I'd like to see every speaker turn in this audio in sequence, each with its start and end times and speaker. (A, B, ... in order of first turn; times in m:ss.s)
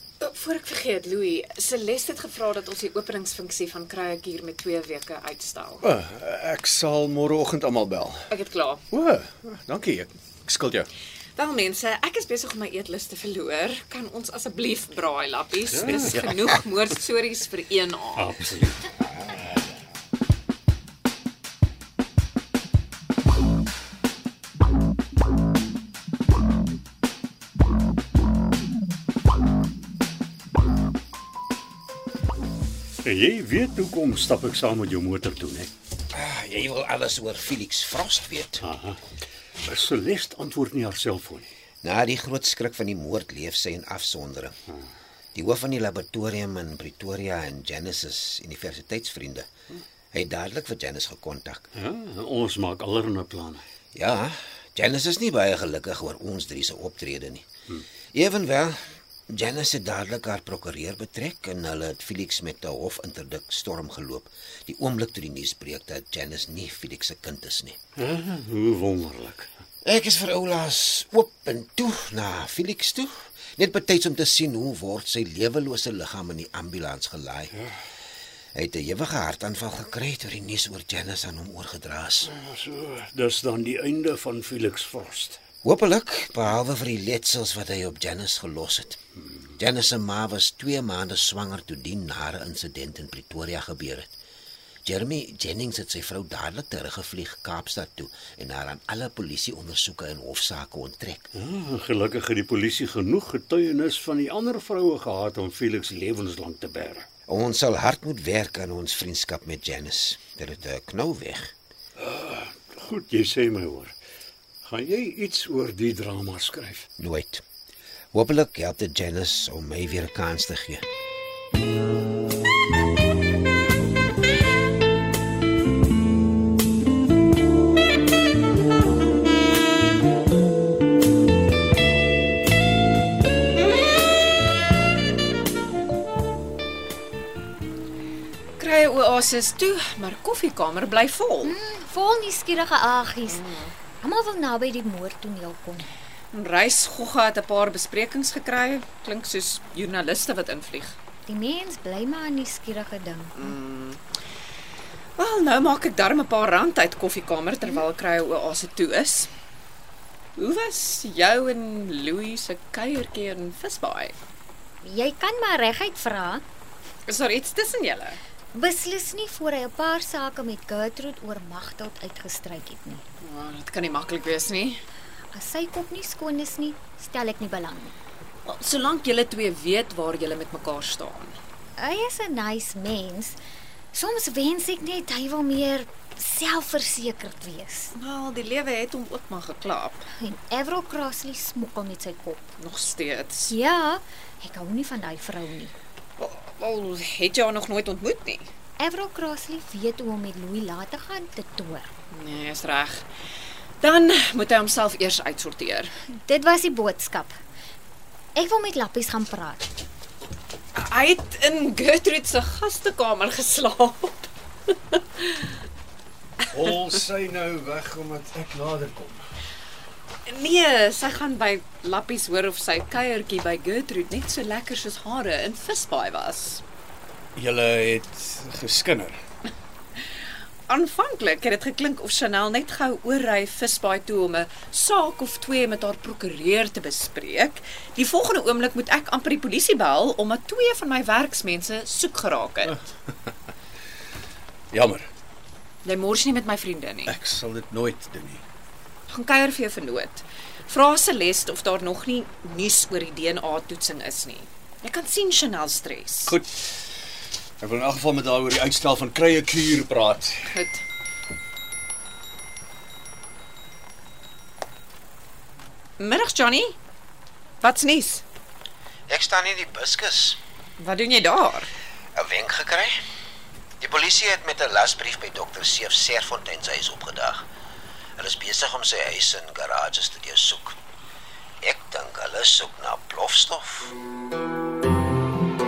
0:00.2-0:05.8 A
0:05.8-0:08.3 B
0:08.3-0:08.8 A
0:08.9-0:10.9 B
0:11.4-0:18.4 A
0:15.7-0:16.3 C
0:18.1-0:18.8 C
0:33.0-0:35.7 C
0:36.1-0:38.6 D
0:38.6-0:39.0 C
0:39.6-0:41.5 C
0:41.8-0:44.5 D
0:45.3-0:49.5 D
0:50.1-0:51.7 D
0:51.7-0:53.6 C
0:53.9-0:57.5 D
0:58.1-1:07.8 D
1:08.0-1:09.5 C
1:09.8-1:17.5 D
1:18.5-1:22.3 D
1:22.3-1:25.4 C
1:25.6-1:29.0 D
1:29.6-1:34.1 D
1:34.8-1:41.3 D
1:41.3-1:47.1 C
1:47.3-1:51.5 D
1:52.0-1:53.9 C
1:54.6-1:56.9 C
1:57.0-1:57.4 D
1:58.1-2:00.8 D
2:18.6-2:21.6 A
2:21.4-2:23.4 E
2:23.3-2:23.7 A
2:24.0-2:25.9 E
2:26.3-2:31.0 A
2:31.3-2:33.5 E
2:33.4-2:34.0 A
2:35.2-2:39.3 A
2:40.4-2:44.1 A
2:44.8-2:46.4 E
2:47.0-2:48.2 A
2:48.5-2:53.0 E
2:53.2-2:54.8 A
2:55.3-2:57.9 E
2:58.4-3:01.4 A
3:01.8-3:03.4 E
3:03.9-3:07.9 E
3:07.9-3:10.0 A
3:10.2-3:12.4 E
3:12.6-3:13.5 A
3:13.5-3:15.7 E
3:16.2-3:18.5 A
3:18.8-3:21.9 E
3:22.1-3:23.0 A
3:23.8-3:25.9 A
3:26.1-3:27.4 E
3:28.4-3:29.7 E
3:30.7-3:35.5 A
3:36.5-3:39.2 B
3:40.2-3:46.6 A
3:47.3-3:49.2 B
3:50.7-4:02.8 A
4:04.7-4:05.1 B
4:05.8-4:07.2 A
4:07.0-4:08.4 B
4:09.1-4:16.3 A
4:16.2-4:16.6 B
4:17.6-4:20.5 B
4:20.5-4:20.8 A
4:26.0-4:26.8 A
4:27.6-4:28.2 A
4:29.1-4:30.4 D
4:30.8-4:31.7 A
4:32.1-4:33.0 D
4:33.8-4:37.4 D
4:38.2-4:40.8 D
4:41.6-4:43.9 D